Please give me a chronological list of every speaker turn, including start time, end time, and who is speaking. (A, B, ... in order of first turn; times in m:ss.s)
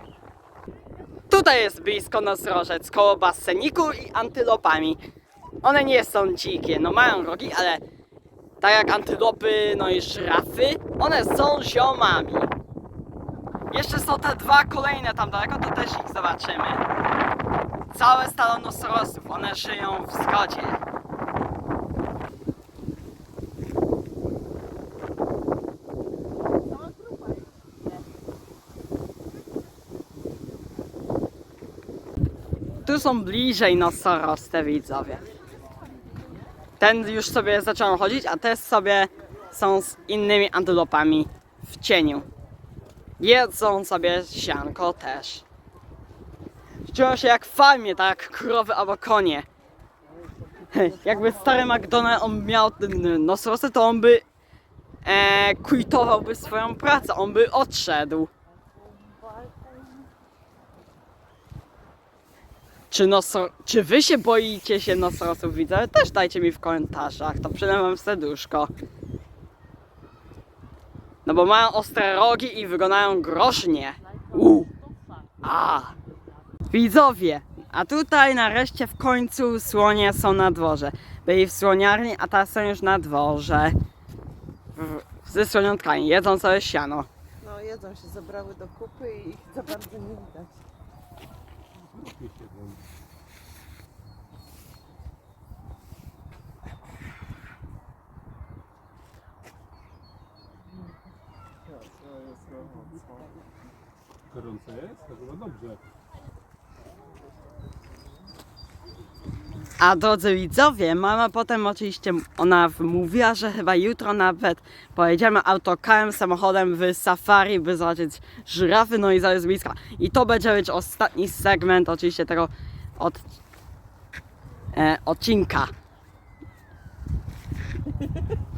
0:01.3-0:05.0 A
0:05.6-0:07.8 A
0:08.6-0:12.5 A
0:13.7-0:16.8 A
0:17.9-0:20.8 A
0:26.8-0:27.5 B
0:32.8-0:35.2 A
0:36.8-0:42.2 A
0:43.2-0:45.4 A
0:46.8-0:49.4 A
0:50.6-0:51.6 B
0:50.7-0:54.2 A
0:55.0-0:58.3 A
0:58.8-1:00.1 B
1:02.9-1:08.7 A
1:11.2-1:14.7 A
1:15.4-1:15.9 A
1:16.7-1:23.8 A
1:24.8-1:27.1 A
1:27.4-1:30.6 B
1:31.8-1:32.8 C
1:44.3-1:45.8 C
1:49.8-2:03.2 A
2:04.7-2:05.7 A